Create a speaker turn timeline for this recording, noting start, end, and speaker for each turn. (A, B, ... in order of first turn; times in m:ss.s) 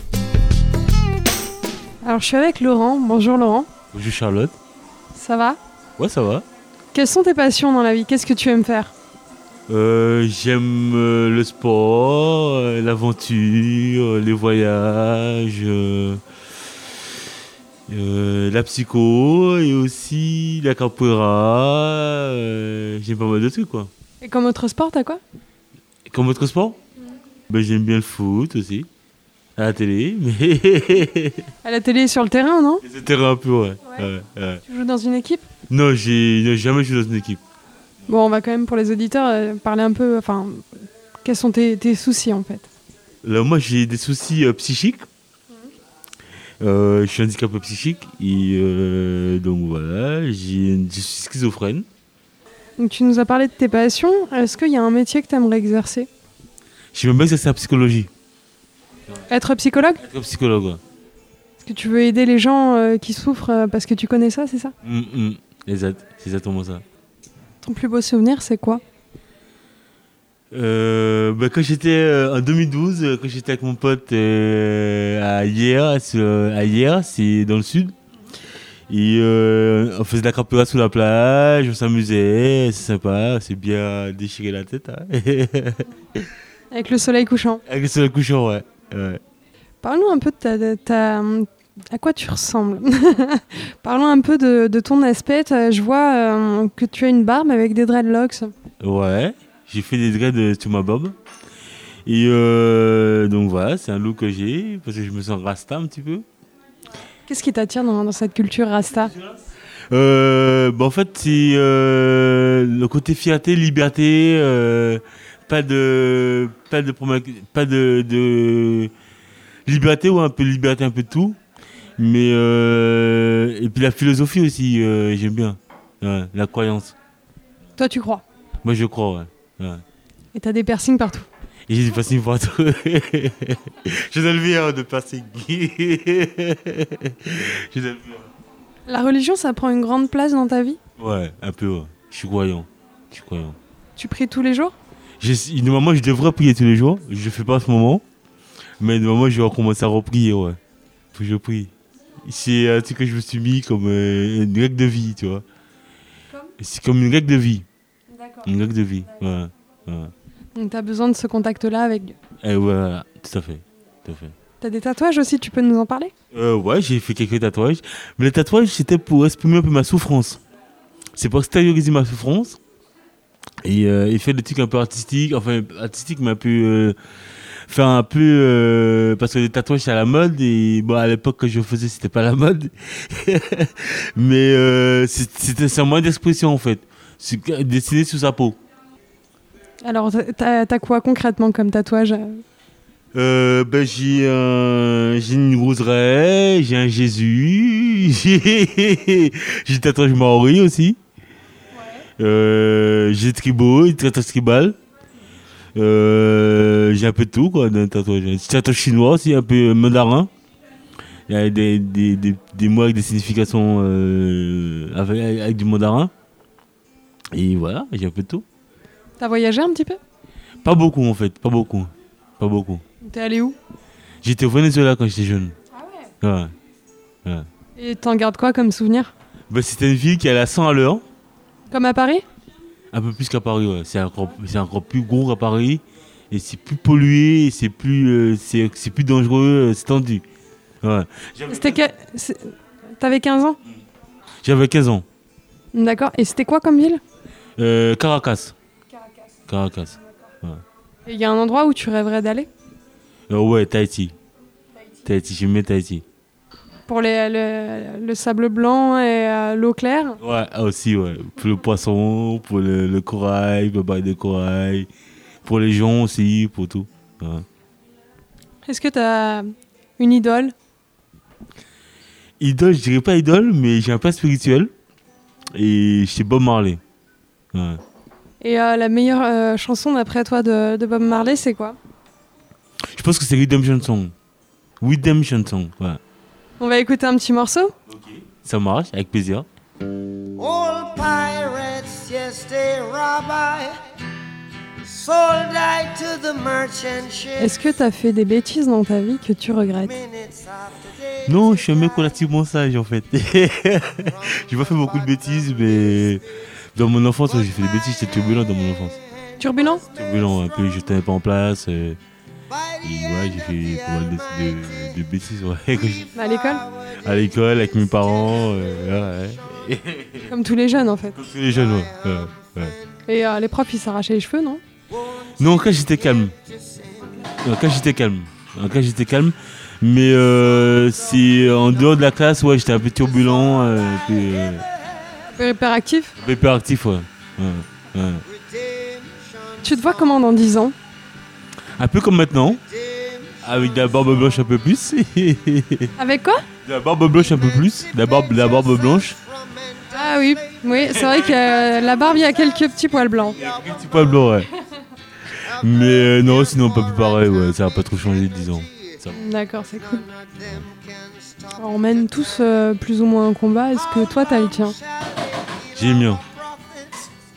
0:02.0-0:03.7 A
0:03.9-0:04.5 B
0:05.1-0:05.6 A
0:06.0-0:06.4 B
0:06.9-0:08.9 A
0:09.7-0:16.2 B
0:17.9-0:23.9 B
0:24.2-0:25.2 A
0:26.1-0:26.8 B
0:27.5-0:28.9 B
0:29.6-0:31.5 B
0:31.6-0:32.8 A
0:32.8-0:34.6 B
0:34.6-0:35.5 A
0:35.7-0:37.4 B
0:38.1-0:42.7 A
0:43.2-0:45.0 B
0:46.6-0:51.8 B
0:52.8-0:56.1 A
0:56.9-0:58.1 B
0:59.3-1:00.0 A
1:00.0-1:00.8 B
1:01.6-1:04.7 A
1:04.8-1:06.8 B
1:07.6-1:08.8 A
1:10.5-1:17.9 B
1:18.9-1:26.3 B
1:26.7-1:27.6 A
1:27.6-1:29.2 B
1:29.8-1:38.5 A
1:38.8-1:41.1 B
1:42.0-1:46.2 B
1:47.3-1:49.1 A
1:49.9-1:58.9 B
1:59.6-2:01.4 B
2:02.0-2:06.9 B
2:07.8-2:08.2 A
2:08.6-2:09.8 B
2:10.3-2:11.3 A
2:11.7-2:18.3 B
2:18.9-2:20.8 A
2:21.0-2:23.6 B
2:24.0-2:24.8 A
2:25.2-2:28.0 B
2:28.8-2:30.6 B
2:31.1-2:31.7 B
2:32.2-2:35.4 B
2:36.6-2:37.6 B
2:38.4-2:40.1 B
2:40.5-2:42.2 A
2:42.4-2:44.3 B
2:44.6-2:46.1 A
2:46.3-2:50.4 B
2:51.2-2:52.6 B
2:53.6-2:57.0 B
2:57.7-3:08.6 B
3:09.8-3:12.4 A
3:13.1-3:21.0 B
3:22.2-3:24.8 B
3:25.7-3:30.3 B
3:31.3-3:36.1 B
3:37.3-3:38.4 B
3:39.2-3:40.0 A
3:40.6-3:42.8 B
3:43.0-3:43.6 A
3:44.2-3:45.5 B
3:46.2-3:46.5 B
3:47.8-3:49.1 A
3:49.5-3:51.0 B
3:51.7-3:52.2 A
3:52.9-4:00.2 B
4:00.8-4:01.8 B
4:01.5-4:03.6 A
4:04.4-4:05.0 B
4:05.7-4:07.0 A
4:07.6-4:08.5 B
4:09.5-4:10.6 B
4:11.0-4:12.5 A
4:13.3-4:14.1 B
4:15.0-4:16.0 B
4:16.9-4:20.2 A
4:20.2-4:24.9 B
4:25.4-4:27.4 B
4:28.6-4:30.5 A
4:32.4-4:34.7 B
4:35.5-4:36.8 B
4:37.5-4:37.8 B
4:38.4-4:41.8 A
4:42.9-4:44.1 B
4:44.8-4:46.0 B
4:46.6-4:47.7 A
4:47.9-4:49.4 B
4:50.4-4:53.8 C
4:54.9-4:57.3 C
4:57.4-5:00.0 A
5:01.2-5:06.2 B
5:06.7-5:09.0 B
5:09.4-5:09.8 A
5:09.9-5:12.0 B
5:12.8-5:16.1 B
5:16.1-5:16.6 A
5:17.0-5:20.3 B
5:20.2-5:21.2 A
5:21.2-5:22.8 B
5:23.0-5:24.6 A
5:25.4-5:26.3 B
5:27.4-5:34.6 B
5:35.3-5:36.1 A
5:36.2-5:38.2 B
5:39.6-5:40.7 A
5:41.8-5:42.6 B
5:43.4-5:45.9 B
5:46.0-5:46.4 A
5:46.6-5:49.2 B
5:49.9-5:53.4 A
5:51.1-5:51.4 B
5:53.4-5:54.5 B
5:55.4-5:59.2 B
5:59.1-6:00.1 A
6:00.4-6:00.7 B
6:01.6-6:04.8 A
6:05.7-6:06.2 B